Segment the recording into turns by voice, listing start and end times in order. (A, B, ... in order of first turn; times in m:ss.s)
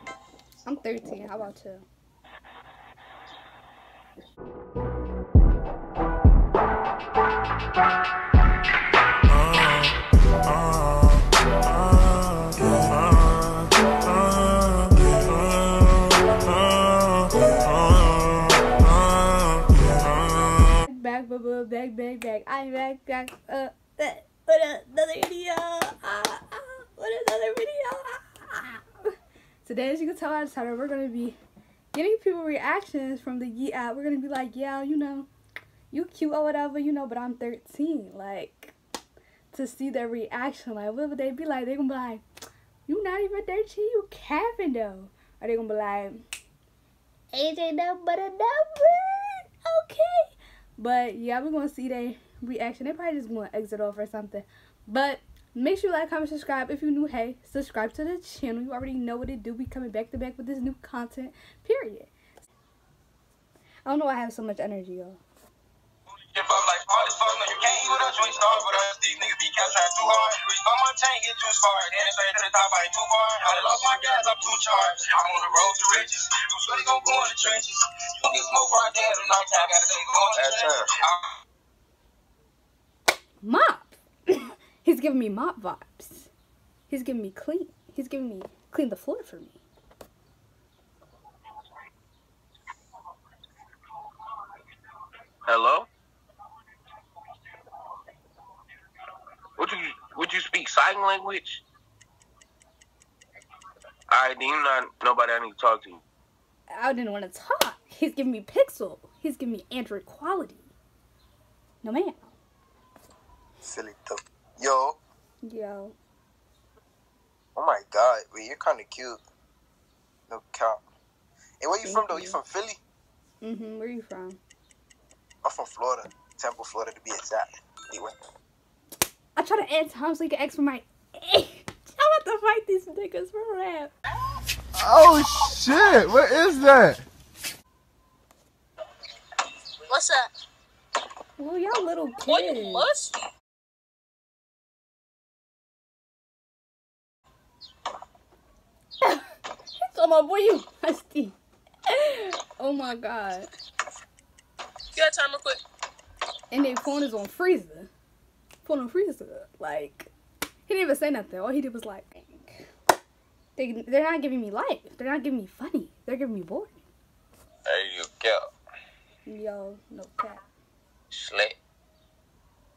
0:00.7-0:01.8 A
0:20.9-0:29.1 A
0:29.6-0:31.4 A
0:31.9-0:35.3 A
0:35.9-0:38.8 A
0:39.5-0:42.2 A
0:42.9-0:46.2 A
0:47.3-1:02.1 A
1:03.9-1:05.2 A
1:06.3-1:21.2 B
1:23.4-1:26.3 A
1:26.9-1:29.6 A
1:35.5-1:35.9 C
1:39.6-1:41.6 C
1:44.1-1:46.0 C
1:46.7-1:50.7 A
1:51.8-1:52.3 A
1:53.6-1:55.0 D
1:55.4-1:56.0 A
1:57.6-1:59.2 D
2:00.3-2:00.8 D
2:01.6-2:02.8 D
2:01.8-2:02.4 A
2:03.4-2:04.4 A
2:05.4-2:08.2 D
2:09.4-2:13.9 A
2:14.8-2:17.0 E
2:19.9-2:20.3 F
2:21.4-2:22.9 A
2:22.3-2:23.1 F
2:29.8-2:31.4 A
2:31.9-2:33.5 A
2:35.0-2:35.6 F
2:36.5-2:37.9 A
2:38.6-2:40.1 A
2:40.7-2:42.7 A
2:43.6-2:46.8 A
2:47.8-2:48.2 C
2:49.3-2:50.4 A
2:51.2-2:51.5 C